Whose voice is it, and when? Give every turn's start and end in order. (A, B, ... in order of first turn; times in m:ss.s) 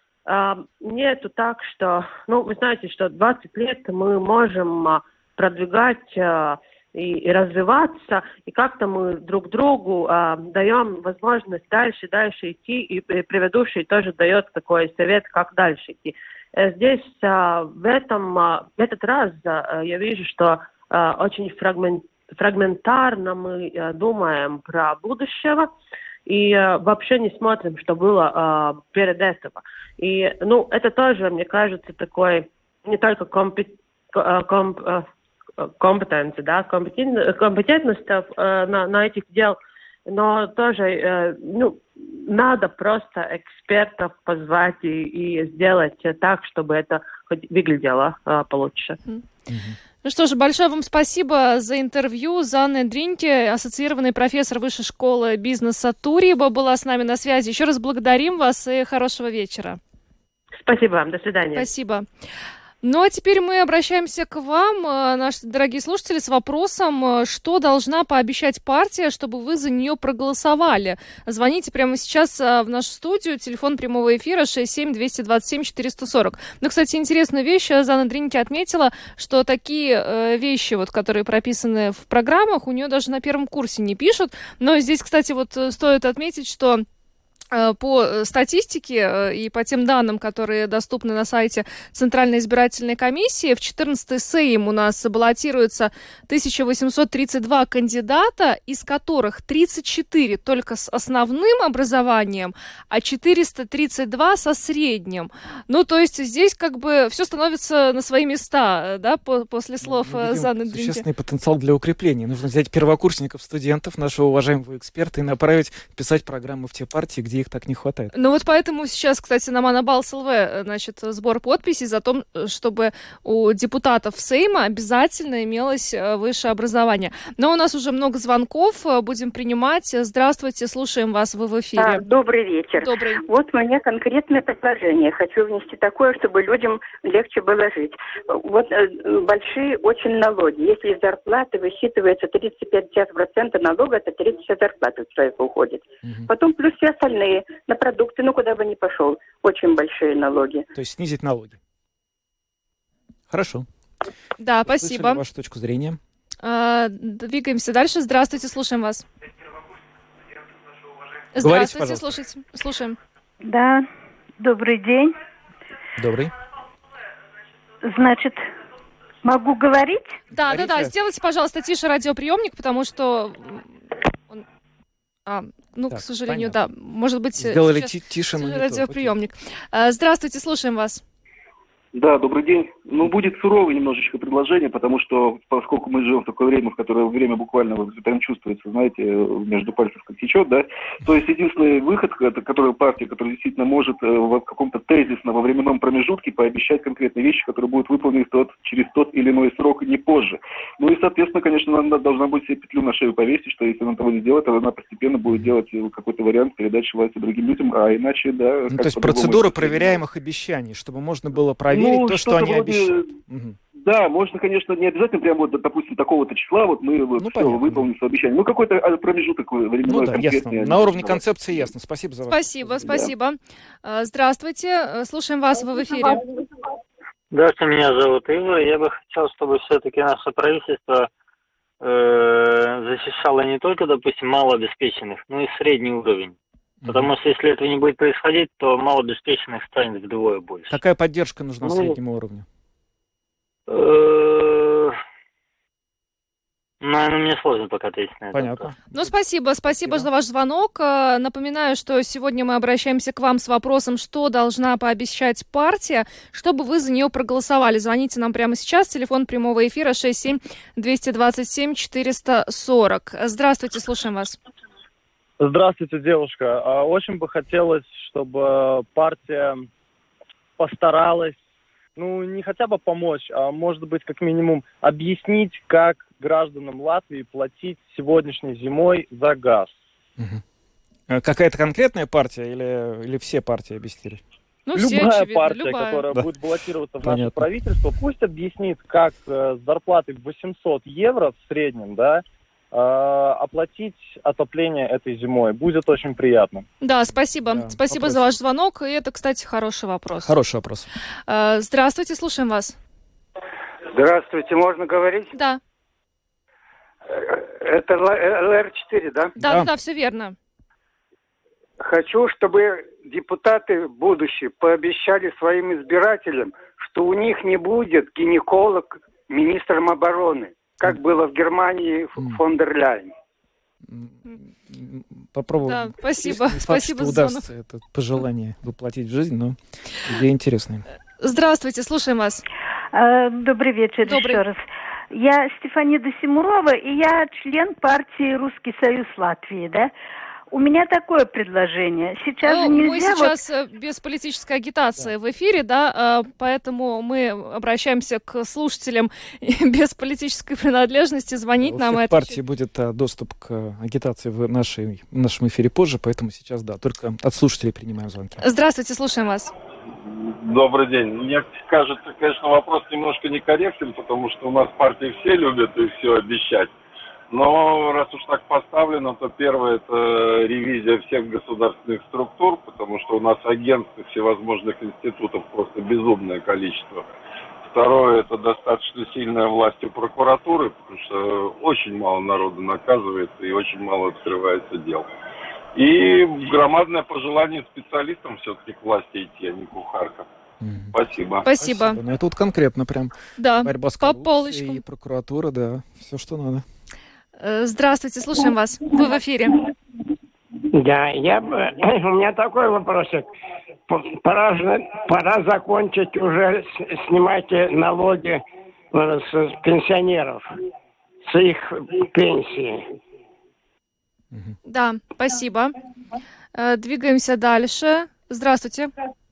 0:00.3-0:25.7 A
0:26.3-0:35.0 A
0:35.6-0:49.0 A
0:49.5-0:49.8 B
0:50.0-0:59.8 C
1:00.6-1:01.7 A
1:01.6-1:02.1 C
1:02.8-1:26.8 C
1:27.5-1:51.0 C
1:49.8-1:58.1 B
1:58.1-2:12.0 C
2:11.8-2:30.7 D
2:12.8-2:13.2 C
2:30.8-2:31.6 B
2:33.3-2:33.7 B
2:34.4-2:35.2 C
2:34.6-2:36.0 B
2:36.4-2:39.0 C
2:41.4-2:43.0 C
2:41.4-2:42.1 B
2:43.4-2:43.9 E
2:44.4-2:45.2 E
2:46.0-2:46.3 B
2:47.8-2:48.4 E
2:49.2-2:50.2 E
2:50.3-2:50.9 B
2:50.3-2:53.7 C
2:55.3-3:01.0 C
2:55.9-2:56.6 B
2:57.4-2:59.1 B
3:01.9-3:30.0 F
3:28.7-3:33.6 B
3:31.7-3:33.2 F
3:33.8-3:41.3 F
3:37.2-3:37.9 B
3:39.9-3:42.9 B
3:42.3-3:46.2 C
3:47.3-3:51.1 G
3:51.8-4:00.7 G
3:56.8-3:57.1 B
4:00.7-4:02.5 B
4:01.7-4:01.9 G
4:03.7-4:04.9 G
4:06.8-4:08.7 G
4:08.3-4:09.1 B
4:08.9-4:24.4 C
4:09.7-4:10.1 B
4:25.4-4:29.7 H
4:30.6-4:31.4 H
4:32.0-4:39.8 H
4:40.2-4:40.4 B
4:41.1-4:44.2 B
4:44.7-4:46.1 C
4:44.8-4:56.7 H
4:47.0-4:47.5 B
4:56.8-5:00.3 C
4:57.5-4:58.3 B
5:00.2-5:00.9 B
5:01.3-5:02.8 C
5:03.9-5:05.3 I
5:05.3-5:05.6 C
5:07.1-5:09.4 I
5:09.4-5:10.4 C
5:09.4-5:09.7 B
5:11.8-5:23.1 I
5:23.9-5:30.8 B
5:25.6-5:27.4 C
5:31.2-5:32.4 C
5:32.9-5:39.9 E
5:34.0-5:34.4 C
5:40.5-5:43.4 E
5:42.4-5:52.4 C
5:51.6-5:58.4 B
5:58.4-5:59.5 C
6:00.0-6:06.7 J
6:07.3-6:17.1 J
6:17.7-6:25.1 J
6:25.8-6:30.3 J
6:30.6-6:31.0 B
6:30.9-6:31.5 J
6:31.4-6:32.0 C
6:31.6-6:36.6 B
6:33.4-6:34.8 C
6:37.4-6:39.6 C
6:40.8-6:43.3 K
6:43.9-6:50.5 K
6:51.3-6:52.9 K
6:54.6-6:55.7 C
6:56.6-6:58.9 C